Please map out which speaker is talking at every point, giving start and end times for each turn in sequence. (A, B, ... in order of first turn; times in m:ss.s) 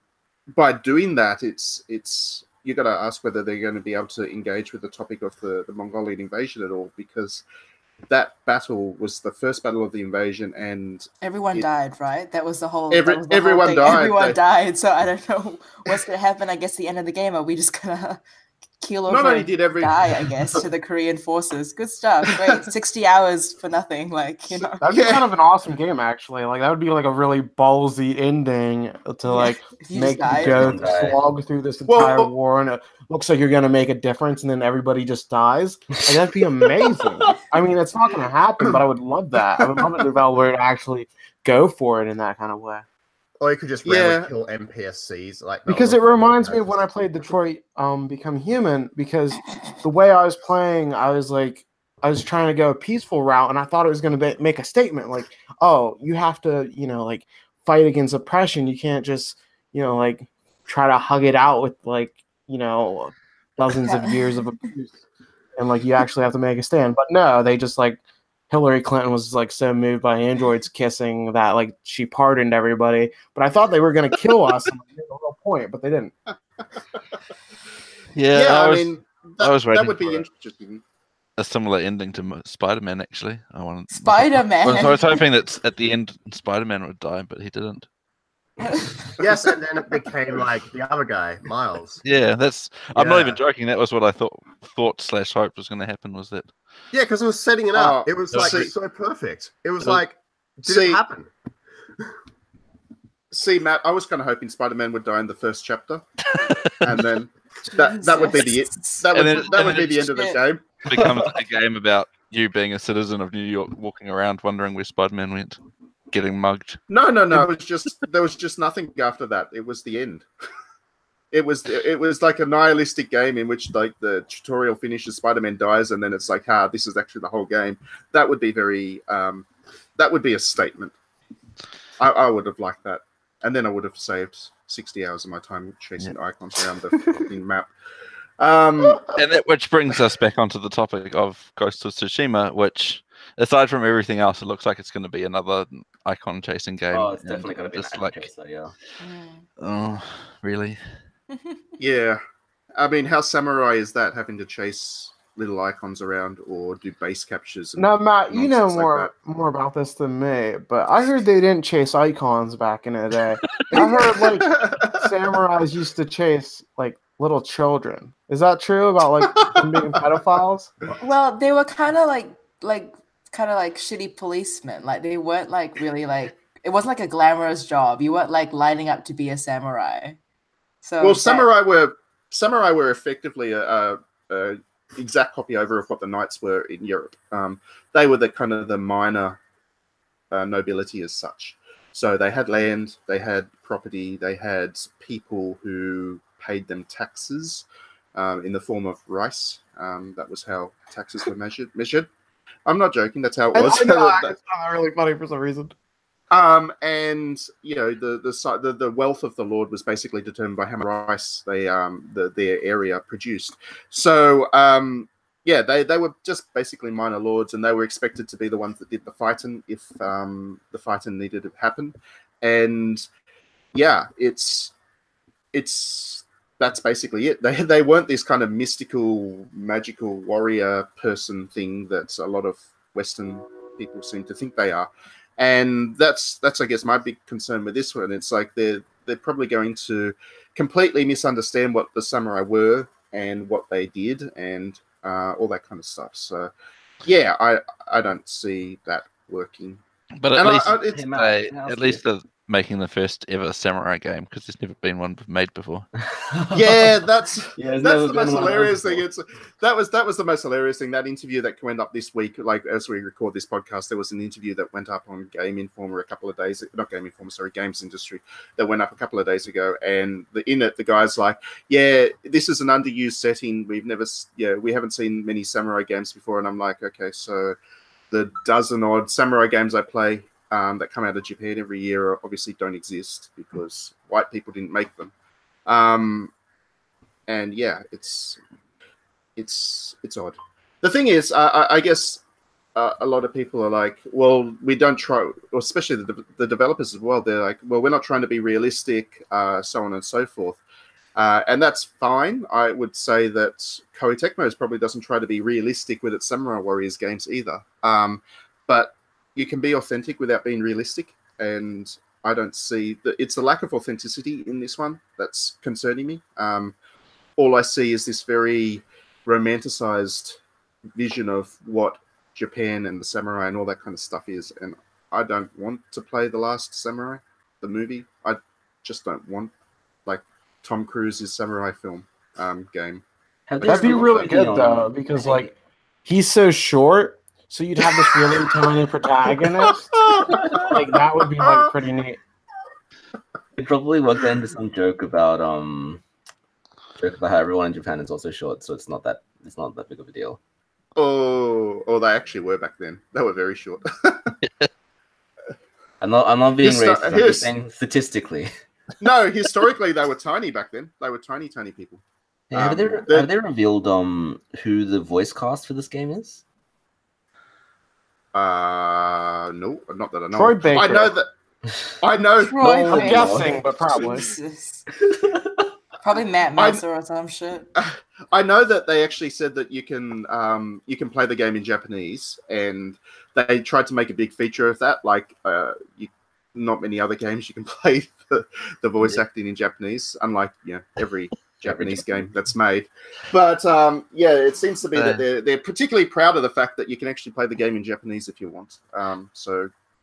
0:00.5-0:07.4 A
0:08.1-0:11.6 A
0:11.2-0:18.2 B
0:12.9-0:14.4 A
0:18.8-0:24.8 B
0:19.1-0:20.1 A
0:22.3-0:22.6 A
0:24.8-0:42.8 C
0:24.8-0:25.2 A
0:29.3-0:30.9 B
0:30.3-0:31.2 D
0:31.9-0:32.3 A
0:43.4-0:46.8 E
0:43.8-0:44.3 A
0:45.7-1:05.0 C
1:03.8-1:04.4 B
1:05.6-1:16.1 C
1:18.2-1:20.2 F
1:18.3-1:20.8 A
1:21.4-1:27.9 F
1:23.9-1:25.3 B
1:28.6-1:29.1 B
1:29.2-1:32.0 E
1:32.0-1:36.5 F
1:32.9-1:33.4 E
1:36.9-1:41.3 E
1:37.7-1:38.7 A
1:38.3-1:38.7 F
1:40.6-1:41.0 A
1:43.3-1:46.0 A
1:46.3-1:47.0 F
1:46.8-1:50.6 A
1:47.7-1:50.4 B
1:49.1-1:50.1 F
1:50.8-1:55.6 F
1:51.0-1:51.2 D
1:56.1-1:56.8 F
1:56.9-2:00.3 A
2:01.3-2:09.5 A
2:10.0-2:10.9 A
2:12.0-2:17.7 A
2:18.4-2:19.1 A
2:19.1-2:28.3 F
2:26.9-2:28.7 D
2:29.0-2:29.4 B
2:29.6-2:30.8 F
2:31.3-2:31.6 B
2:31.8-2:32.2 A
2:32.8-2:39.1 A
2:37.8-2:50.7 C
2:43.7-2:45.1 A
2:51.0-3:00.2 B
3:00.8-3:01.5 B
3:01.0-3:09.4 A
3:10.3-3:22.1 A
3:22.6-3:24.3 A
3:23.5-3:25.7 C
3:26.3-3:43.0 A
3:43.7-3:44.7 A
3:45.5-4:06.5 A
4:07.0-4:09.8 A
4:10.2-4:15.8 F
4:10.3-4:11.1 A
4:10.9-4:12.0 D
4:16.0-4:16.9 D
4:16.5-4:37.6 A
4:17.6-4:19.0 D
4:38.1-4:45.1 A
4:45.6-4:46.3 A
4:47.3-4:48.4 A
4:49.4-4:52.2 A
4:52.7-5:00.6 A
5:01.2-5:16.8 A
5:17.4-5:20.4 A
5:21.0-5:29.5 A
5:30.0-5:33.0 A
5:33.5-5:35.4 D
5:33.6-5:34.4 A
5:33.6-5:35.5 C
5:36.0-5:42.2 C
5:40.0-5:41.6 A
5:43.6-5:46.0 D
5:47.0-5:50.4 D
5:51.0-5:54.3 A
5:54.4-5:54.7 F
5:56.0-5:58.5 D
5:56.6-5:57.5 A
5:59.0-6:02.0 A
6:02.5-6:06.4 D
6:02.5-6:03.3 A
6:08.3-6:11.3 A
6:10.3-6:11.1 C
6:12.0-6:14.2 A
6:12.4-6:14.8 B
6:12.9-6:14.2 C
6:13.1-6:13.4 D
6:15.0-6:15.6 D
6:16.0-6:17.7 B
6:16.6-6:16.8 A
6:17.8-6:39.7 A
6:31.6-6:32.2 D
6:34.9-6:35.2 F